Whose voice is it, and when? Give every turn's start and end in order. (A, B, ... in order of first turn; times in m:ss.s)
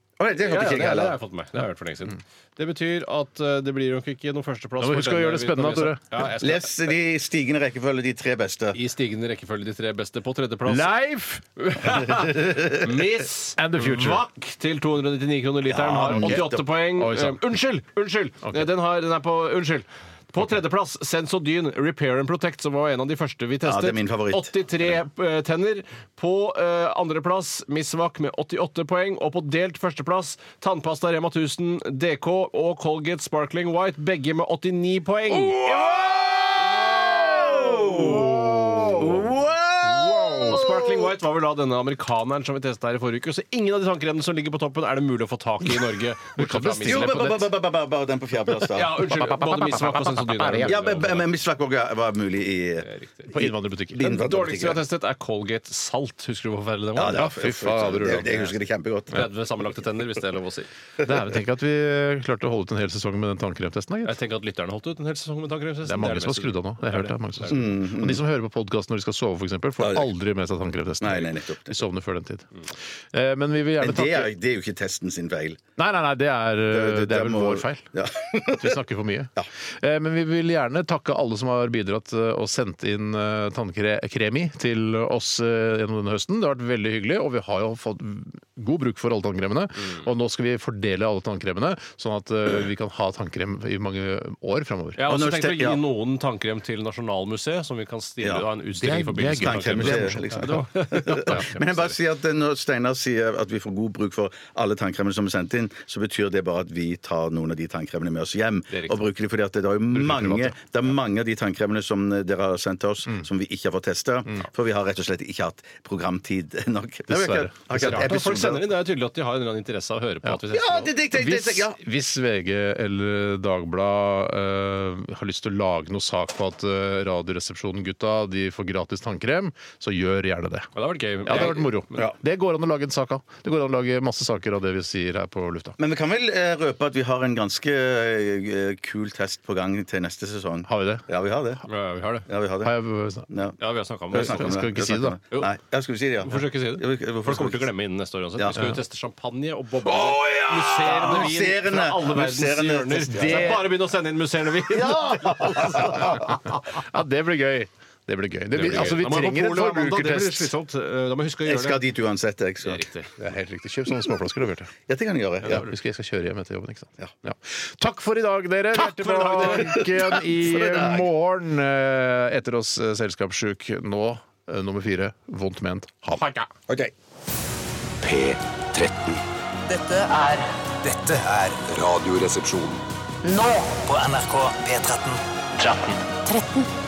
0:00.2-0:01.2 A
0:00.4-0:06.9 B
0:04.8-0:06.2 C
0:06.4-0:08.8 A
0:08.7-0:10.9 B
0:10.6-0:11.4 C
0:11.6-0:36.0 B
0:12.4-0:12.8 A
0:13.6-0:14.2 C
0:15.7-0:16.6 A
0:16.1-0:17.4 C
0:23.6-0:24.6 A
0:35.5-0:39.3 C
0:37.0-0:40.9 A
0:38.8-0:39.5 B
0:39.8-0:40.6 C
0:40.4-0:47.4 B
0:46.4-0:47.5 C
0:46.8-0:49.2 A
0:48.7-0:51.3 B
0:49.0-0:51.0 C
0:50.6-0:54.8 A
0:52.8-0:53.3 B
0:53.3-0:54.1 C
0:54.0-0:58.6 B
0:57.0-0:59.3 A
0:57.1-0:58.3 C
0:59.1-1:00.7 B
1:01.0-1:04.2 C
1:04.0-1:07.6 B
1:05.8-1:14.3 C
1:07.5-1:08.2 A
1:09.8-1:10.1 A
1:11.0-1:11.8 A
1:13.8-1:15.6 A
1:15.8-1:17.8 C
1:16.7-1:18.8 A
1:18.6-1:35.0 C
1:35.0-1:41.9 B
1:35.0-1:35.8 A
1:38.7-1:40.4 C
1:39.4-1:58.7 A
1:48.7-1:49.0 B
1:49.9-1:50.5 C
1:57.1-1:58.1 C
1:57.7-2:00.9 B
2:00.5-2:01.7 A
2:01.1-2:10.7 C
2:10.7-2:12.0 B
2:11.2-2:15.8 C
2:15.8-2:21.6 A
2:20.6-2:21.0 C
2:21.7-2:22.3 B
2:22.3-2:22.8 A
2:22.6-2:23.3 C
2:23.3-2:23.6 A
2:23.6-2:24.6 B
2:24.1-2:27.7 A
2:24.1-2:25.2 C
2:26.2-2:36.3 B
2:28.4-2:28.7 A
2:30.1-2:31.2 C
2:30.2-2:33.7 A
2:33.1-2:33.6 C
2:34.7-2:36.4 A
2:35.8-2:40.5 C
2:38.5-2:41.8 B
2:41.5-2:42.8 A
2:42.6-2:43.1 B
2:43.2-2:44.7 C
2:44.9-2:45.6 A
2:45.4-2:56.3 C
2:48.7-2:49.9 B
2:49.4-2:51.0 A
2:58.0-2:59.2 D
2:59.7-3:01.6 E
3:01.4-3:02.8 D
3:03.2-3:06.6 E